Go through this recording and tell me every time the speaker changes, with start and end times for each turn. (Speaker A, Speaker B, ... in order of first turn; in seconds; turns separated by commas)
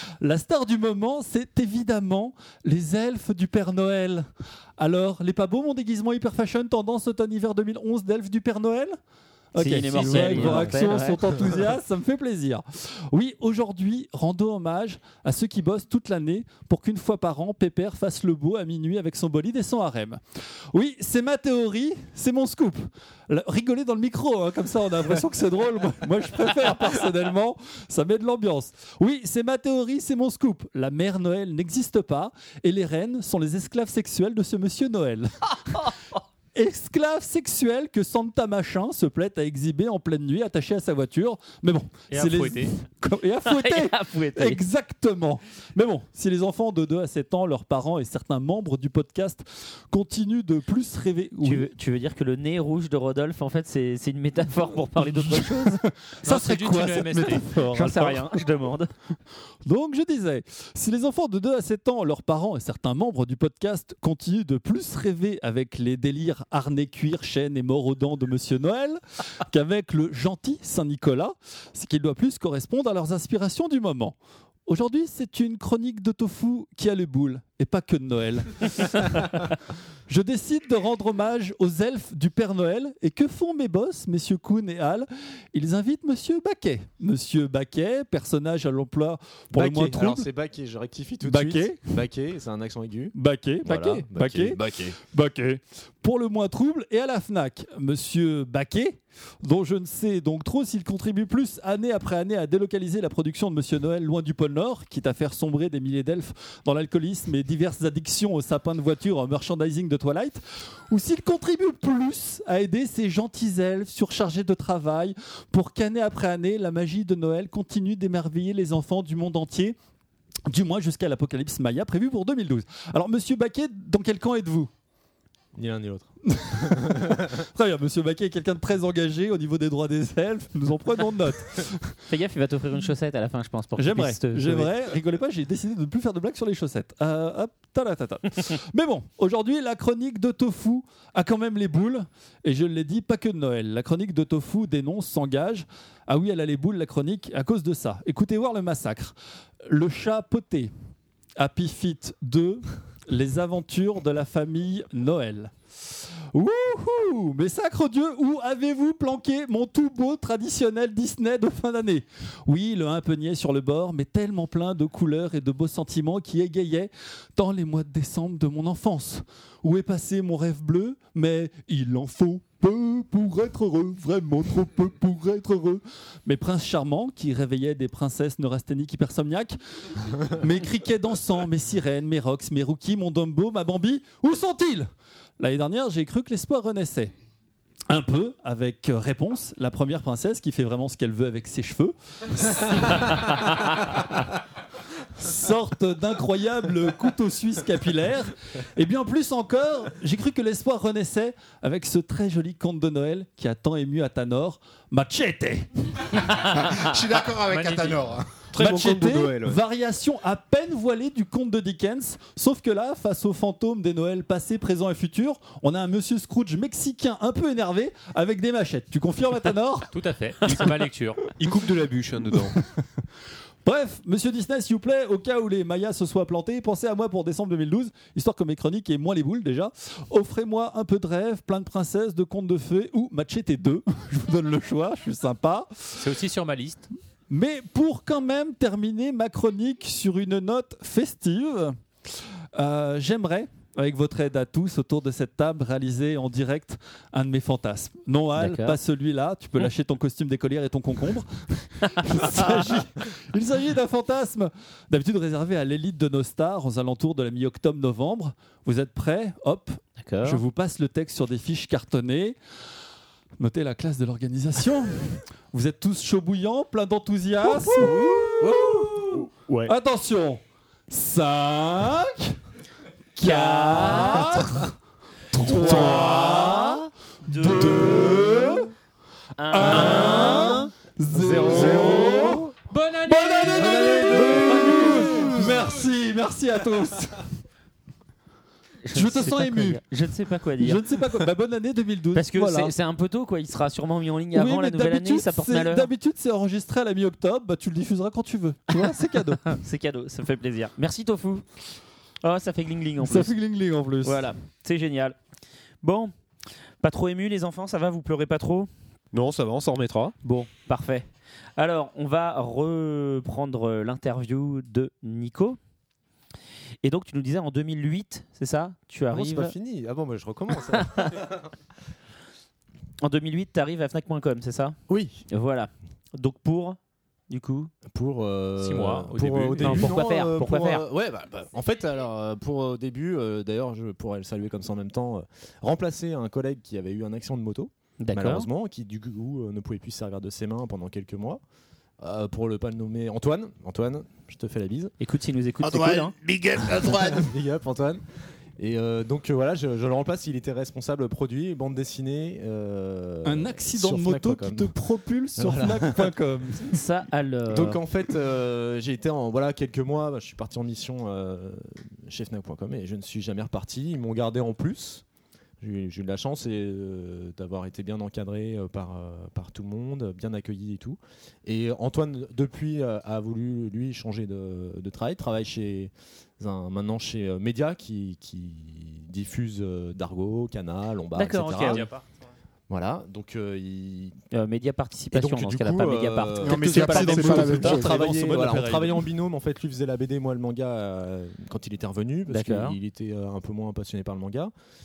Speaker A: 0.2-9.0, Speaker A: 9.5-35.9, Speaker B: 9.5-11.2, Speaker A: 36.5-51.7, Speaker C: 42.1-42.7, Speaker B: 43.4-44.6, Speaker B: 51.4-55.8, Speaker A: 55.0-58.4, Speaker C: 56.2-57.4, Speaker B: 57.7-58.9, Speaker A: 59.6-74.1, Speaker A: 74.7-79.6, Speaker A: 80.1-90.3, Speaker D: 89.5-95.0, Speaker A: 91.2-92.0, Speaker A: 93.1-119.8, Speaker A: 120.5-124.7, Speaker D: 125.5-127.4, Speaker A: 126.3-132.0, Speaker B: 132.1-134.7, Speaker A: 133.8-150.7, Speaker A: 151.4-187.1, Speaker A: 187.9-194.2, Speaker A: 195.2-205.7, Speaker E: 206.3-208.3, Speaker C: 207.5-208.0, Speaker F: 208.5-209.6, Speaker A: 208.5-220.7, Speaker C: 219.9-221.2, Speaker F: 221.4-222.6, Speaker A: 222.3-222.7, Speaker A: 223.6-236.1, Speaker C: 236.0-236.9, Speaker A: 237.3-262.4, Speaker B: 248.3-248.8, Speaker B: 260.0-260.4, Speaker A: 263.4-272.4, Speaker F: 267.7-269.2, Speaker A: 273.1-274.7, Speaker B: 273.2-274.5, Speaker A: 275.3-278.7, Speaker B: 275.4-278.3, Speaker B: 279.4-282.2, Speaker A: 279.5-287.3, Speaker D: 281.1-282.5, Speaker C: 282.7-284.0, Speaker D: 283.8-284.6, Speaker B: 284.1-285.3, Speaker B: 288.8-290.8, Speaker A: 288.9-289.8, Speaker A: 290.6-292.7, Speaker B: 292.1-295.9, Speaker A: 294.3-299.6, Speaker B: 299.6-301.4, Speaker B: 302.2-303.3, Speaker A: 303.0-304.2, Speaker B: 304.0-305.2, Speaker B: 305.8-306.1, Speaker B: 306.8-308.7, Speaker F: 309.1-310.1, Speaker B: 310.2-315.6, Speaker B: 316.8-319.5, Speaker D: 319.1-321.5, Speaker B: 323.0-326.8, Speaker D: 324.9-325.2, Speaker B: 327.3-327.7, Speaker D: 327.9-341.4, Speaker C: 328.6-329.9, Speaker B: 329.6-330.8, Speaker B: 338.0-338.5, Speaker D: 342.0-344.9, Speaker B: 345.0-346.1, Speaker E: 345.6-347.3, Speaker D: 346.7-348.0, Speaker D: 348.6-354.7, Speaker A: 353.2-356.8, Speaker D: 355.4-356.0, Speaker B: 356.7-357.8, Speaker D: 357.5-365.0, Speaker D: 365.6-381.9, Speaker B: 381.1-381.9, Speaker C: 381.5-382.2, Speaker D: 382.7-384.2, Speaker B: 384.3-387.3, Speaker D: 385.1-394.5, Speaker E: 386.4-388.0, Speaker A: 386.5-389.0, Speaker B: 392.3-392.8